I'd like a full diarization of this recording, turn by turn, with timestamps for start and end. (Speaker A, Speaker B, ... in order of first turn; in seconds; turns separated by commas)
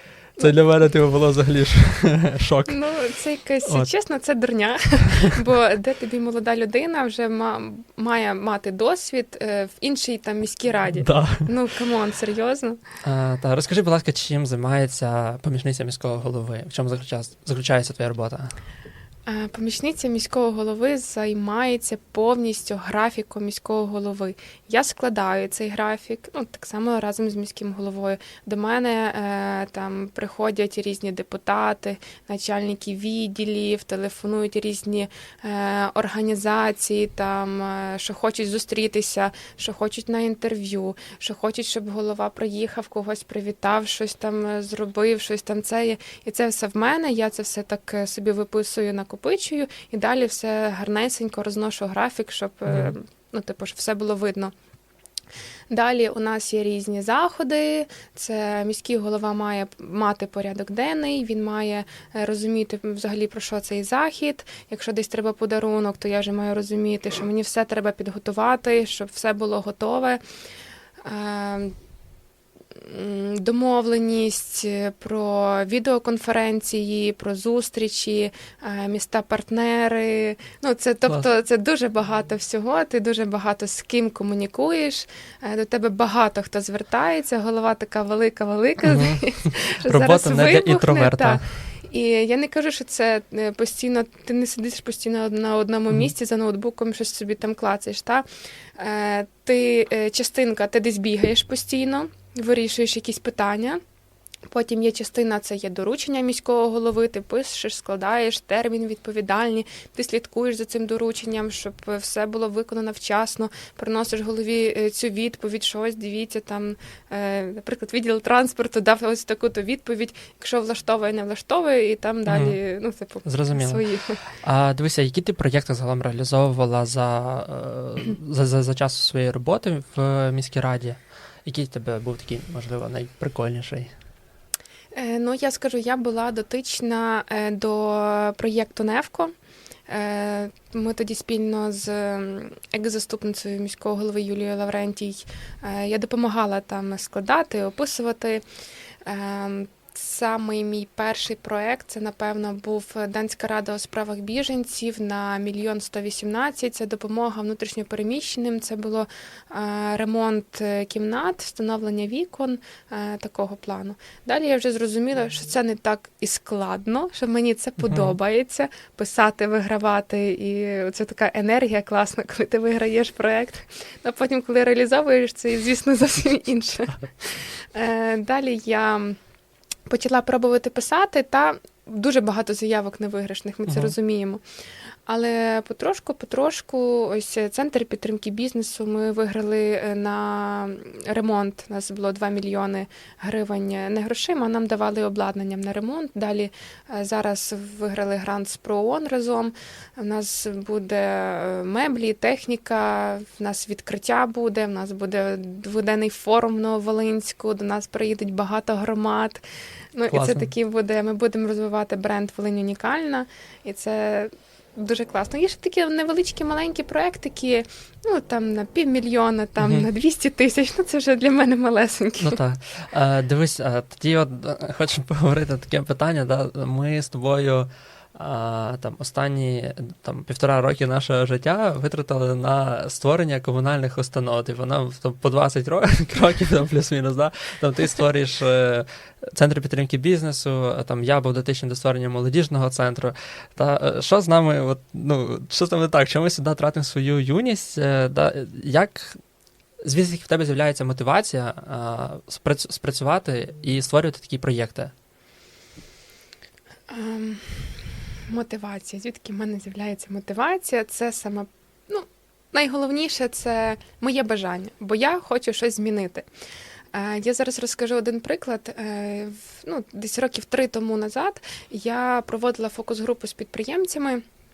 Speaker A: 0.4-2.8, Speaker B: 2.7-12.8, Speaker A: 11.0-11.5, Speaker A: 13.0-18.5, Speaker B: 19.2-54.5, Speaker A: 52.7-52.9, Speaker B: 55.7-70.2, Speaker B: 71.0-71.7, Speaker B: 72.7-98.2, Speaker A: 88.8-89.3, Speaker A: 89.8-91.5, Speaker B: 98.8-103.8, Speaker B: 104.5-124.2, Speaker A: 122.3-122.6, Speaker A: 123.2-123.8, Speaker A: 124.4-133.9, Speaker B: 134.9-139.3, Speaker B: 139.9-148.4, Speaker B: 149.0-179.2, Speaker A: 167.9-168.2, Speaker B: 179.9-184.4, Speaker A: 183.7-183.9, Speaker B: 185.1-209.4, Speaker B: 209.9-222.4, Speaker A: 210.1-210.5, Speaker A: 219.6-219.8, Speaker A: 222.2-249.2, Speaker A: 249.8-254.9, Speaker B: 256.9-266.2, Speaker B: 266.9-274.2